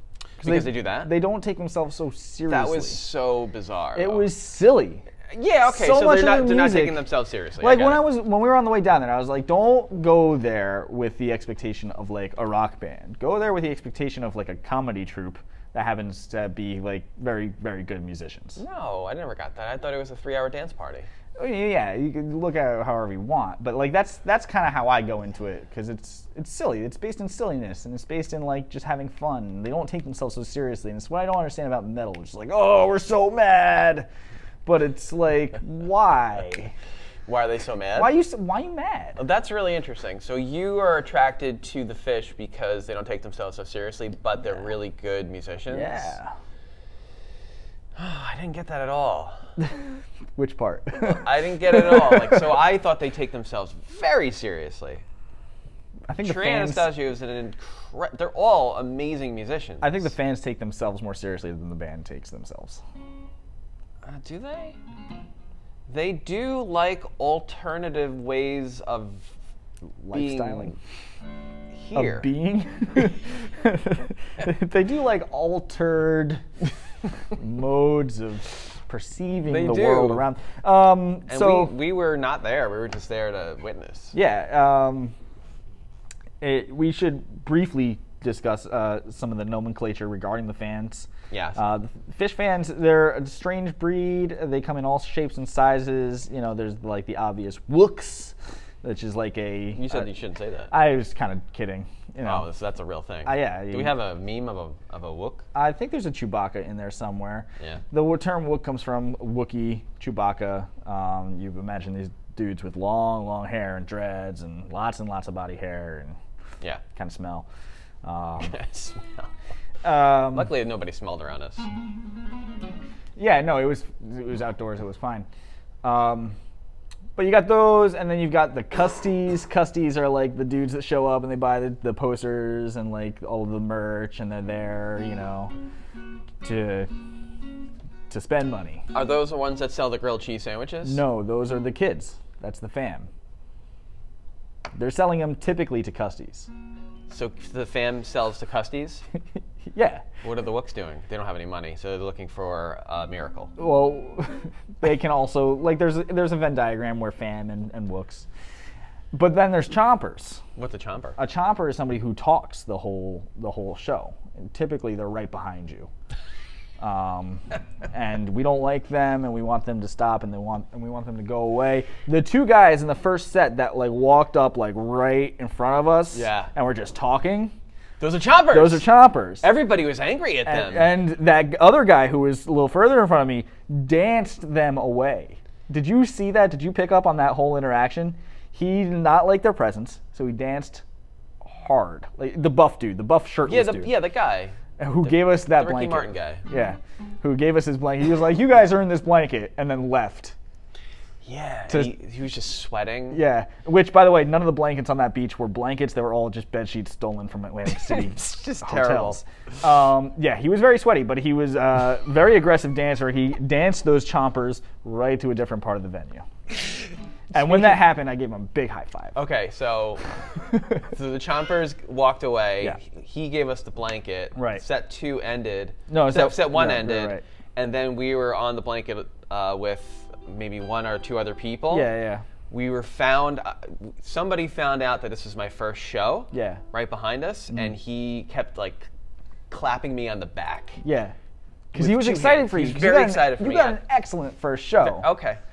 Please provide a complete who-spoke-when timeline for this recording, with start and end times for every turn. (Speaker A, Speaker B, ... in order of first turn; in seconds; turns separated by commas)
Speaker A: 0.4-1.1, Speaker B: 0.4-3.0, Speaker A: 2.5-4.3, Speaker B: 4.0-5.1, Speaker A: 5.3-8.1, Speaker B: 5.7-7.0, Speaker B: 7.6-18.6, Speaker A: 18.6-21.1, Speaker B: 21.4-34.1, Speaker B: 34.6-36.7, Speaker A: 37.3-38.1, Speaker B: 38.0-39.2, Speaker A: 39.2-46.1, Speaker B: 45.7-46.3, Speaker A: 48.0-49.5, Speaker B: 50.4-52.5, Speaker A: 51.0-55.0, Speaker B: 56.1-56.9, Speaker A: 56.2-60.1, Speaker B: 59.8-62.8, Speaker A: 64.0-64.8, Speaker A: 65.9-69.3, Speaker B: 70.0-70.8, Speaker A: 70.1-70.8, Speaker A: 71.7-72.3, Speaker B: 72.0-76.4, Speaker B: 77.3-81.7, Speaker A: 79.5-80.3, Speaker A: 81.3-84.2, Speaker B: 84.1-85.1, Speaker B: 86.4-100.1, Speaker A: 91.3-91.6, Speaker A: 99.8-100.7, Speaker B: 100.7-102.5, Speaker A: 102.2-105.5, Speaker B: 103.3-104.0, Speaker B: 105.5-116.2, Speaker B: 116.9-117.5, Speaker B: 118.0-118.6, Speaker A: 118.4-119.3, Speaker B: 119.8-120.5, Speaker A: 120.3-121.7, Speaker B: 123.2-125.3, Speaker B: 125.8-126.4, Speaker B: 127.2-135.5, Speaker B: 136.4-136.9, Speaker B: 138.1-138.8, Speaker A: 138.9-141.0, Speaker B: 140.8-143.1, Speaker B: 144.8-146.5, Speaker A: 147.1-149.0, Speaker B: 149.7-150.1, Speaker A: 150.2-153.5, Speaker B: 153.6-158.3, Speaker B: 159.1-160.4, Speaker A: 160.6-161.2, Speaker B: 161.2-165.9, Speaker B: 166.8-177.5, Speaker A: 176.1-176.5, Speaker A: 178.0-178.9, Speaker B: 178.5-179.4, Speaker A: 179.4-181.0, Speaker B: 180.4-190.8, Speaker B: 191.4-193.9, Speaker A: 193.4-196.4, Speaker B: 194.8-200.3, Speaker A: 201.2-203.2, Speaker B: 203.1-216.3, Speaker A: 207.7-209.2, Speaker B: 217.3-219.2, Speaker A: 217.4-217.8, Speaker A: 219.2-220.0, Speaker A: 220.9-231.9, Speaker B: 224.4-224.6, Speaker B: 225.9-227.2, Speaker B: 231.7-232.2, Speaker A: 232.5-238.9, Speaker B: 236.3-236.6, Speaker A: 239.5-240.8, Speaker B: 240.8-241.2, Speaker B: 241.7-245.1, Speaker A: 241.8-243.8, Speaker A: 244.8-245.4